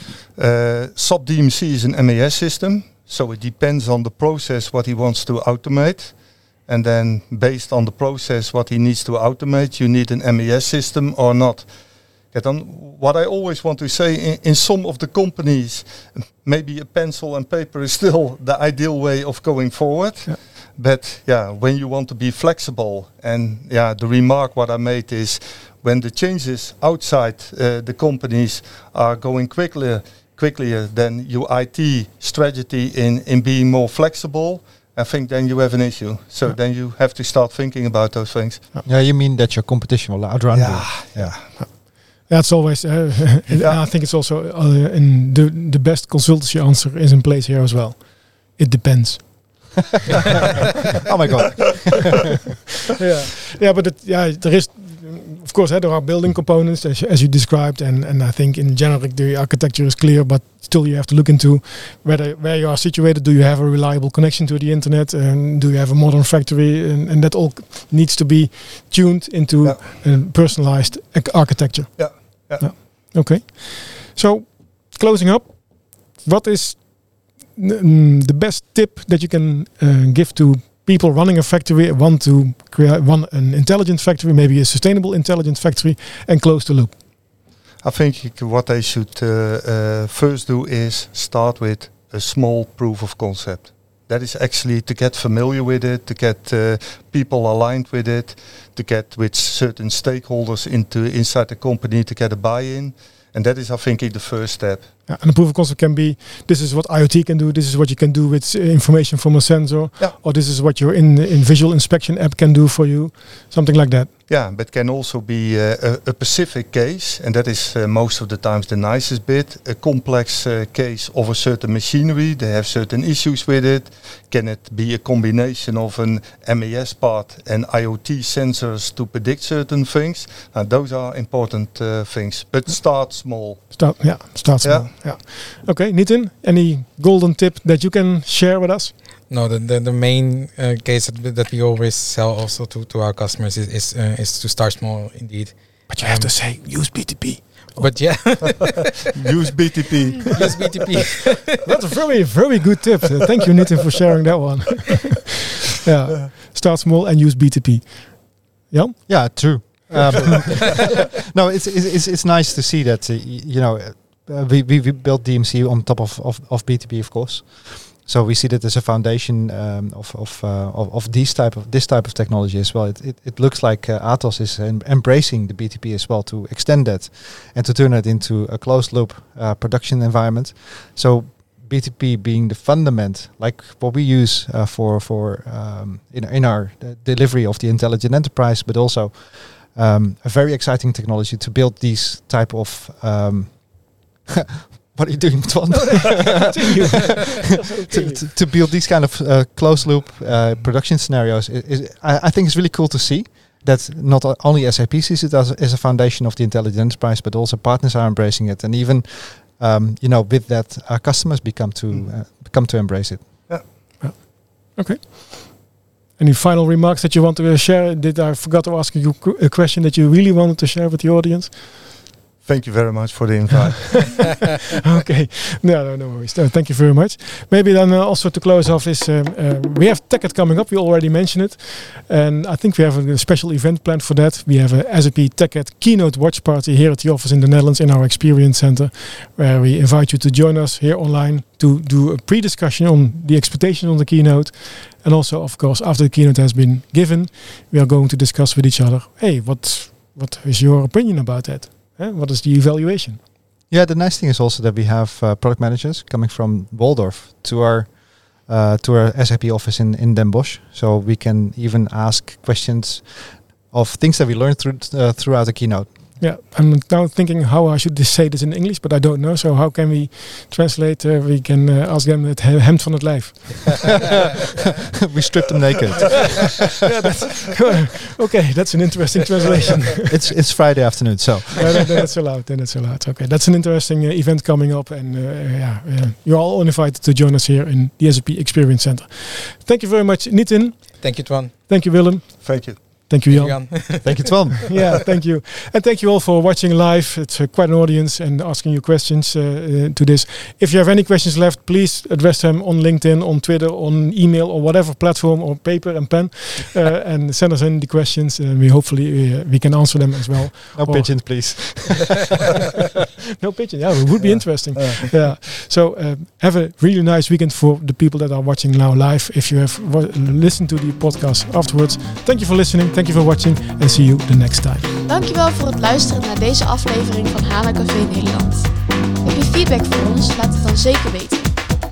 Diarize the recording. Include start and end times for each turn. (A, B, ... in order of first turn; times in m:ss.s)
0:00.4-0:11.7 A
0:12.3-0:38.6 A
0:38.8-0:41.6 B
0:40.5-0:41.4 A
0:41.6-0:49.7 C
0:51.0-0:52.2 B
0:53.0-1:27.0 C
1:12.0-1:12.9 A
1:27.8-1:44.9 A
1:45.1-1:54.1 C
1:54.3-2:13.8 A
2:13.7-2:18.9 C
2:14.6-2:14.9 A
2:19.3-2:26.4 D
2:25.9-2:28.6 C
2:27.8-2:28.9 D
2:29.1-2:30.4 A
2:30.3-2:31.7 D
2:31.6-2:39.8 C
2:39.1-3:33.5 B
3:15.9-3:18.3 C
3:34.0-3:41.7 C
3:42.4-3:44.4 A
3:44.8-4:13.2 C
4:13.7-4:25.9 B
4:26.2-4:33.9 C
4:35.1-4:36.7 B
4:36.8-4:40.1 C
4:40.0-4:41.9 B
4:41.6-5:11.8 C
4:51.0-4:51.5 D
4:52.4-4:52.8 A
4:53.3-4:54.5 D
4:54.0-4:54.9 B
5:10.7-5:12.4 B
5:13.4-5:24.9 C
5:14.8-5:15.0 A
5:25.0-5:28.7 E
5:29.2-5:31.6 E